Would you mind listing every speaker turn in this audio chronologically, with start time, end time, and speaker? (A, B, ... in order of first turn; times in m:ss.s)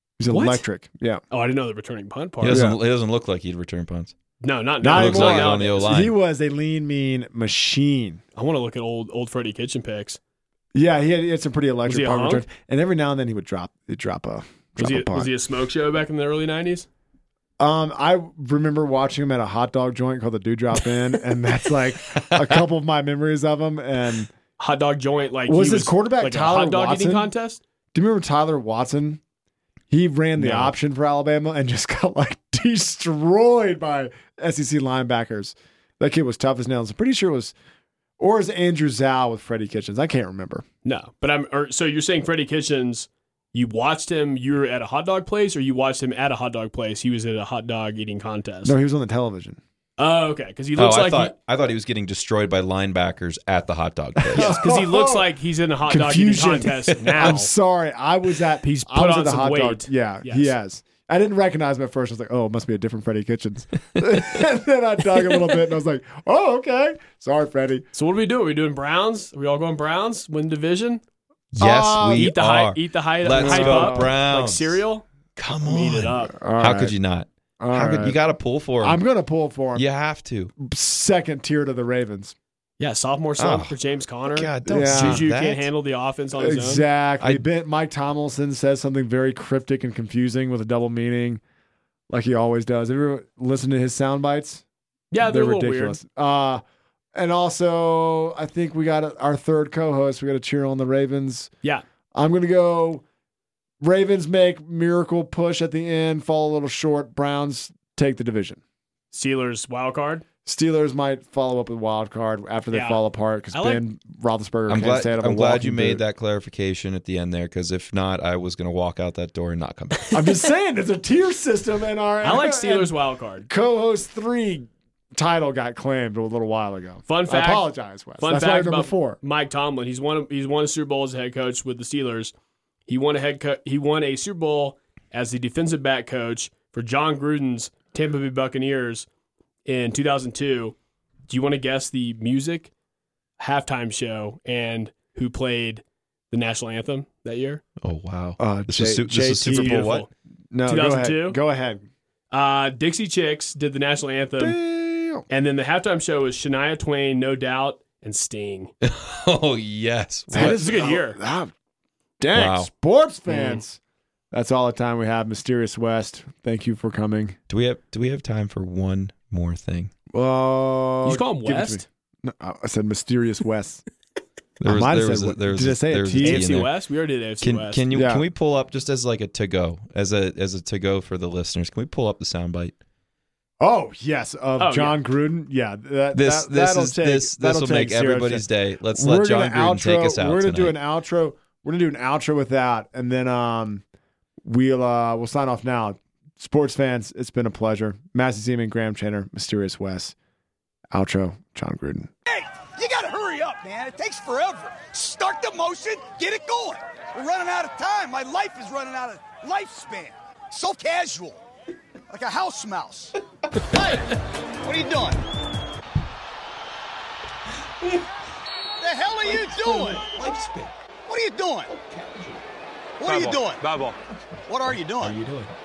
0:00.2-0:01.2 A
0:00.3-0:00.6 B
0:01.3-0:02.6 B
0:02.4-0:04.1 C
0:02.5-0:02.8 A
0:04.4-0:05.9 B
0:04.8-0:08.2 A
0:04.8-0:06.1 C
0:08.4-0:10.2 B
0:10.7-0:15.3 A
0:11.8-0:12.4 B
0:14.8-0:16.9 B
0:17.6-0:24.3 A
0:22.2-0:22.5 C
0:24.6-0:27.6 B
0:25.5-0:27.3 A
0:27.9-0:29.2 A
0:29.9-0:37.5 A
0:30.4-0:30.7 B
0:38.2-0:40.6 A
0:40.8-0:48.8 B
0:48.6-0:49.6 A
0:50.0-0:51.3 B
0:50.8-0:54.6 C
0:54.3-0:55.3 A
0:54.3-0:57.5 B
0:55.9-1:07.9 A
0:57.1-0:57.4 C
0:58.6-1:00.5 B
1:07.9-1:11.0 B
1:11.5-1:14.8 C
1:11.6-1:12.3 A
1:12.2-1:15.0 B
1:13.3-1:14.1 A
1:15.4-1:19.0 C
1:15.6-1:16.3 B
1:16.3-1:16.9 A
1:17.6-1:18.2 A
1:18.8-1:19.8 A
1:19.7-1:20.5 C
1:20.6-1:22.3 A
1:22.8-1:26.8 B
1:23.4-1:23.7 C
1:24.3-1:25.7 C
1:24.6-1:25.2 A
1:26.4-1:31.4 A
1:32.1-1:34.6 A
1:35.1-1:36.0 B
1:35.2-1:36.6 A
1:37.1-1:41.5 A
1:42.1-1:43.0 A
1:43.8-1:48.6 A
1:49.1-1:50.2 B
1:50.4-1:56.0 A
1:52.7-1:53.0 B
1:53.5-1:53.8 B
1:54.7-2:00.1 C
2:00.1-2:02.9 A
2:02.2-2:03.5 B
2:03.4-2:09.2 A
2:07.1-2:12.3 B
2:12.9-2:19.1 B
2:19.6-2:20.7 B
2:21.3-2:22.7 B
2:23.4-2:27.6 B
2:27.8-2:30.0 C
2:28.4-2:29.9 A
2:29.5-2:30.1 B
2:30.5-2:31.8 A
2:30.7-2:31.4 B
2:32.3-2:34.6 B
2:34.4-2:35.2 A
2:35.3-2:38.7 B
2:38.8-2:40.5 C
2:40.3-2:41.2 B
2:40.3-2:41.5 A
2:42.2-2:43.8 A
2:42.3-2:42.7 C
2:43.3-2:43.6 B
2:44.3-2:47.4 A
2:47.5-2:49.9 C
2:50.1-2:53.8 A
2:51.0-2:51.8 B
2:54.6-2:56.7 C
2:54.6-2:56.5 A
2:56.2-2:57.8 B
2:57.4-3:02.7 C
2:57.9-2:58.2 A
3:03.6-3:13.8 A
3:04.6-3:05.0 B
3:06.1-3:10.8 C
3:14.4-3:20.1 A
3:20.9-3:22.1 A
3:22.3-3:31.4 D
3:32.1-3:34.1 D
3:34.6-3:35.2 D
3:38.8-3:40.3 D
3:41.1-3:42.3 D
3:43.0-3:45.2 D